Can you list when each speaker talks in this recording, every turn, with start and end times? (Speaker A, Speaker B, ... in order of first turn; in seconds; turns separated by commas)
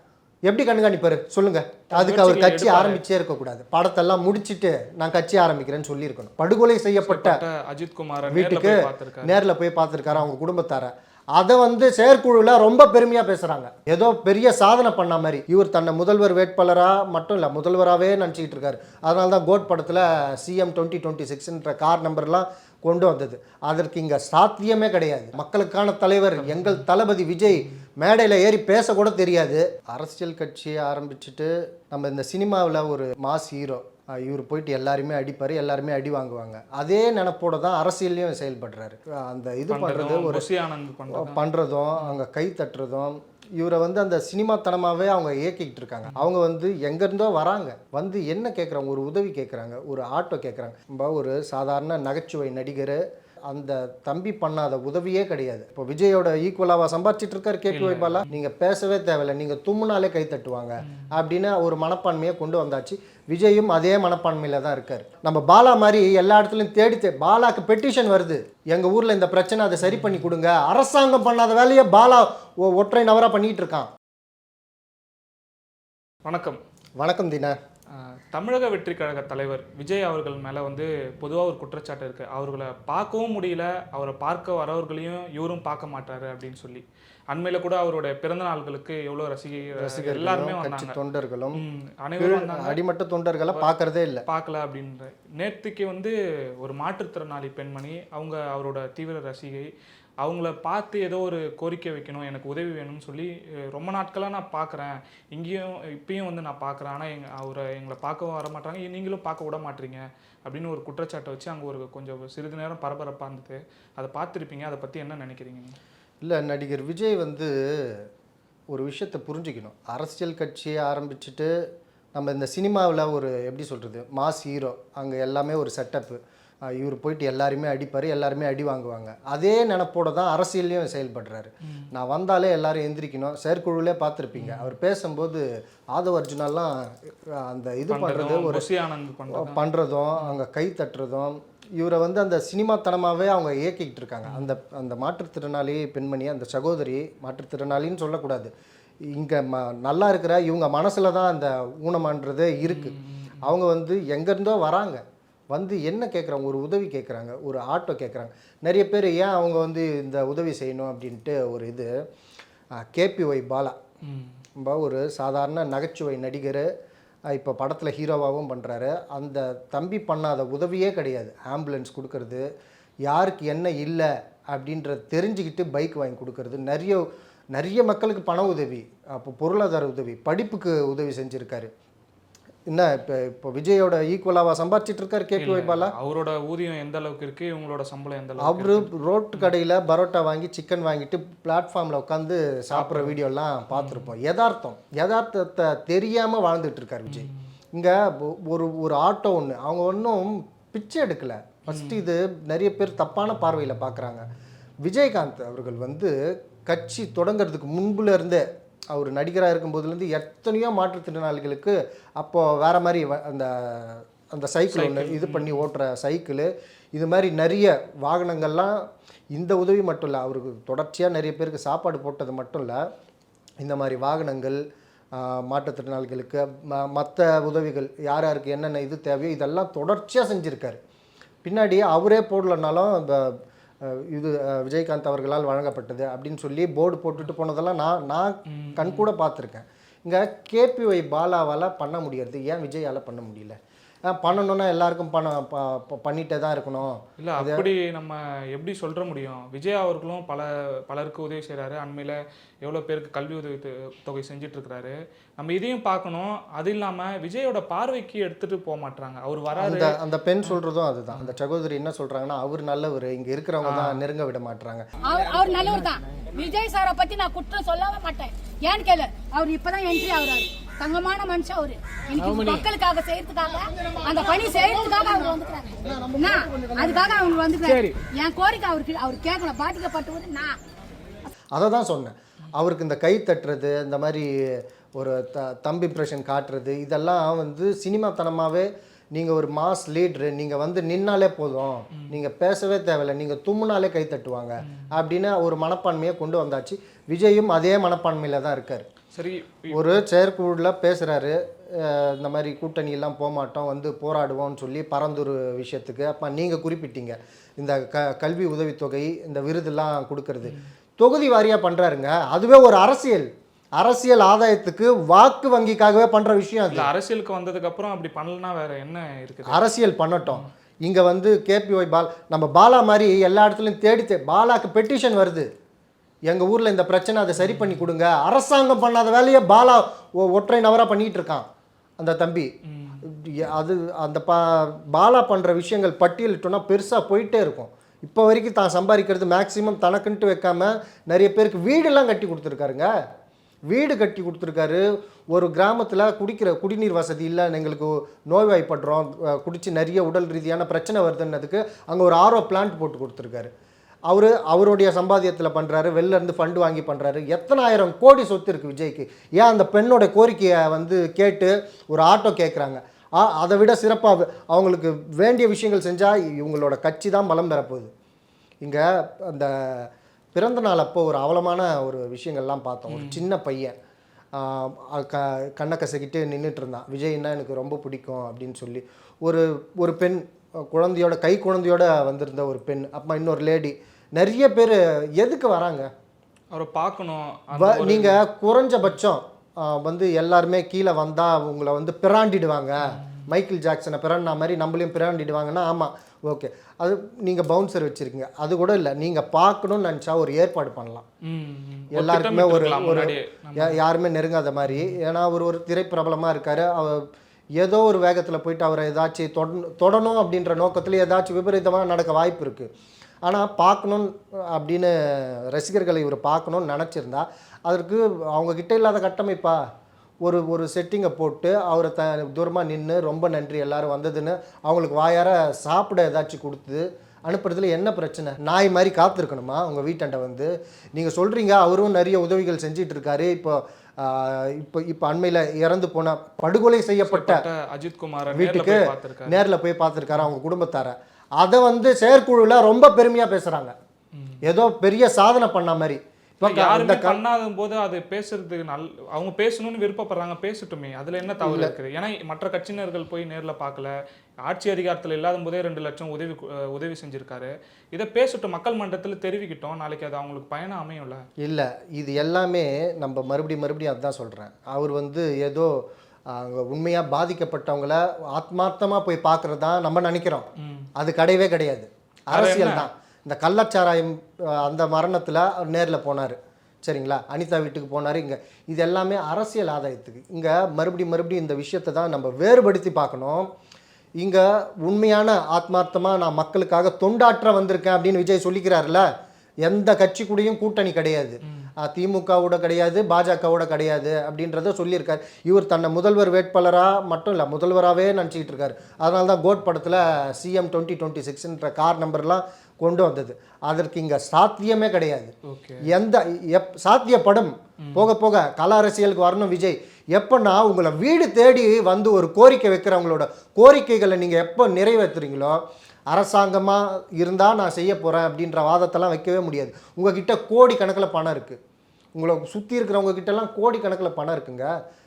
Speaker A: 0.5-7.4, Speaker B: 1.9-3.0, Speaker B: 7.0-9.4, Speaker A: 8.2-40.5, Speaker B: 26.4-26.8, Speaker B: 39.7-41.4, Speaker A: 41.1-73.9, Speaker B: 57.7-58.3, Speaker B: 60.8-61.1, Speaker B: 69.8-70.3, Speaker B: 76.2-76.6, Speaker A: 77.0-77.5, Speaker B: 77.9-91.0, Speaker A: 89.8-91.6, Speaker B: 91.5-92.8, Speaker A: 92.2-94.2, Speaker B: 94.3-99.7, Speaker B: 100.2-115.8, Speaker A: 116.2-118.1, Speaker A: 118.7-121.5, Speaker A: 122.1-138.6, Speaker B: 131.6-131.9, Speaker B: 134.3-134.8, Speaker B: 137.9-139.6, Speaker A: 139.3-148.5, Speaker B: 144.2-144.6, Speaker A: 149.1-161.9, Speaker B: 152.6-153.5, Speaker A: 162.8-163.8, Speaker B: 164.0-164.4, Speaker A: 164.6-166.7, Speaker A: 167.3-172.4, Speaker A: 173.1-177.0, Speaker A: 177.5-181.7, Speaker A: 182.7-185.9, Speaker B: 185.4-189.5, Speaker A: 188.4-204.3, Speaker B: 192.7-193.2, Speaker B: 193.7-194.1, Speaker B: 197.1-197.5, Speaker B: 201.7-202.0, Speaker A: 204.8-222.8, Speaker B: 214.7-215.6, Speaker A: 223.6-224.6, Speaker A: 225.1-230.8, Speaker A: 231.4-247.7, Speaker B: 238.5-239.1, Speaker B: 247.2-260.6, Speaker A: 259.6-264.9, Speaker B: 261.1-261.4, Speaker B: 263.6-264.0, Speaker C: 265.0-280.6, Speaker A: 281.6-298.9, Speaker B: 294.6-294.9, Speaker B: 299.1-300.1, Speaker A: 299.7-316.9, Speaker B: 316.7-319.6, Speaker A: 319.5-325.5, Speaker A: 326.3-331.5, Speaker B: 327.4-327.9, Speaker A: 332.0-332.5, Speaker B: 332.6-333.1, Speaker A: 333.1-342.9, Speaker A: 343.7-353.5, Speaker A: 354.1-367.9, Speaker A: 368.6-373.8, Speaker B: 372.9-373.2, Speaker A: 374.4-385.9, Speaker B: 386.5-388.2, Speaker A: 387.6-401.1, Speaker B: 392.8-393.3, Speaker B: 401.2-403.8, Speaker A: 401.9-412.7, Speaker B: 404.6-405.0, Speaker A: 413.2-419.6, Speaker A: 420.2-437.4, Speaker B: 437.1-439.4, Speaker A: 438.3-443.8, Speaker B: 444.1-444.4, Speaker A: 444.4-447.2, Speaker B: 446.4-453.9, Speaker A: 451.4-451.7, Speaker B: 454.4-461.2, Speaker A: 461.4-483.5, Speaker B: 470.6-470.9, Speaker B: 472.3-472.9, Speaker A: 484.2-489.1, Speaker A: 489.6-521.6, Speaker B: 491.5-491.7, Speaker B: 505.4-505.9, Speaker B: 507.8-508.1, Speaker A: 522.1-524.7